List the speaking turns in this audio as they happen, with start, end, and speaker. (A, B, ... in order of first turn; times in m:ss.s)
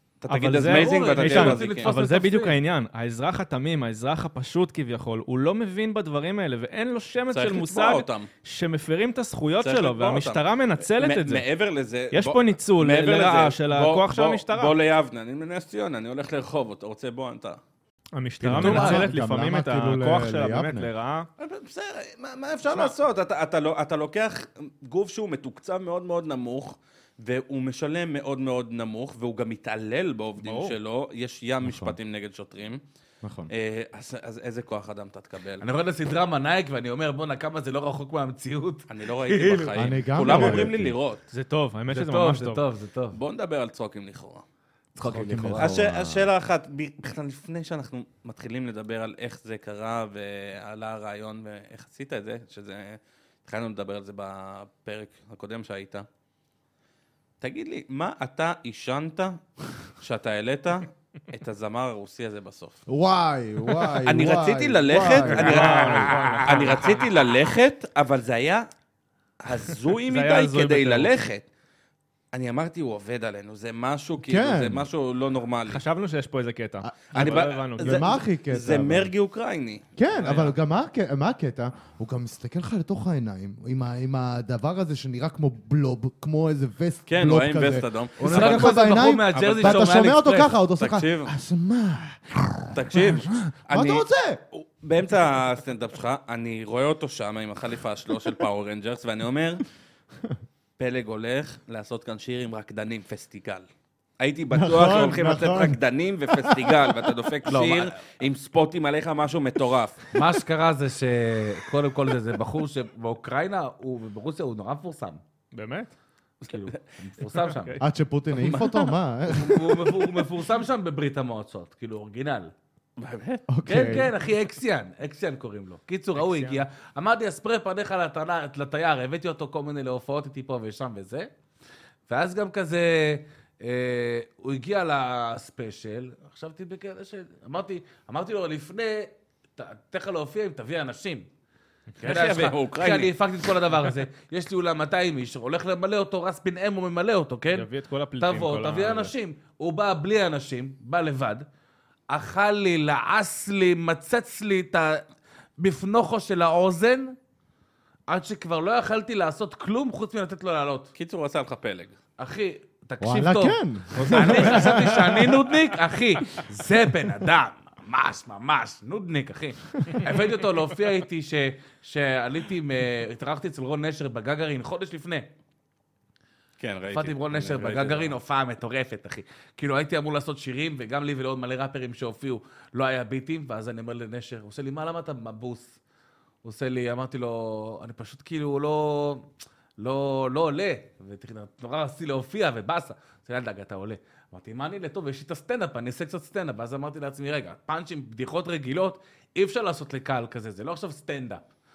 0:00.2-0:01.9 A
0:00.3-0:11.4 B
0:00.7-0:02.6 C
0:07.3-0:08.3 A
0:09.6-0:17.6 A
0:12.1-0:14.7 B
0:18.1-0:21.3 B
0:18.4-0:20.9 D
0:18.6-0:19.0 A
0:21.4-0:32.8 A
0:22.7-0:23.0 B
0:30.4-0:30.8 B
0:31.6-0:32.0 D
0:33.2-0:33.5 D
0:33.5-0:35.6 A
0:35.6-0:39.8 C
0:38.9-0:41.2 A
0:39.8-0:41.0 D
0:40.3-0:40.6 B
0:41.3-0:42.6 B
0:41.9-0:43.2 C
0:43.1-0:44.4 A
0:45.0-0:45.8 C
0:45.0-0:46.3 D
0:45.6-0:56.0 A
0:57.4-0:59.4 A
1:00.0-1:02.8 A
1:02.9-1:06.0 D
1:04.0-1:08.7 A
1:05.0-1:06.9 B
1:06.0-1:07.0 C
1:09.4-1:11.4 A
1:10.1-1:11.1 B
1:12.3-1:15.8 A
1:14.2-1:14.9 D
1:15.7-1:18.2 B
1:16.8-1:19.1 D
1:17.1-1:19.8 A
1:20.0-1:34.4 D
1:20.2-1:20.6 B
1:27.1-1:28.8 A
1:28.2-1:30.6 C
1:29.3-1:30.0 A
1:30.8-1:31.3 A
1:32.7-1:39.6 A
1:40.8-1:43.7 A
1:44.2-1:50.1 A
1:44.5-1:47.2 D
1:47.5-1:48.0 C
1:50.1-1:55.2 C
1:55.5-1:55.9 B
1:56.4-1:57.8 C
1:57.8-2:00.1 D
1:58.5-1:58.8 A
1:59.3-2:02.5 C
2:03.0-2:03.5 A
2:03.5-2:04.1 D
2:03.7-2:11.3 C
2:06.2-2:06.6 B
2:12.1-2:21.3 C
2:22.0-2:27.7 C
2:22.0-2:23.6 A
2:27.5-2:29.1 B
2:28.2-2:31.5 C
2:32.1-2:35.0 C
2:35.6-2:37.2 C
2:38.1-2:40.9 C
2:41.0-2:42.0 A
2:42.2-2:55.3 C
2:43.0-2:45.4 D
2:44.0-2:45.1 B
2:56.6-2:58.2 A
2:56.9-3:05.8 C
3:06.4-3:21.4 C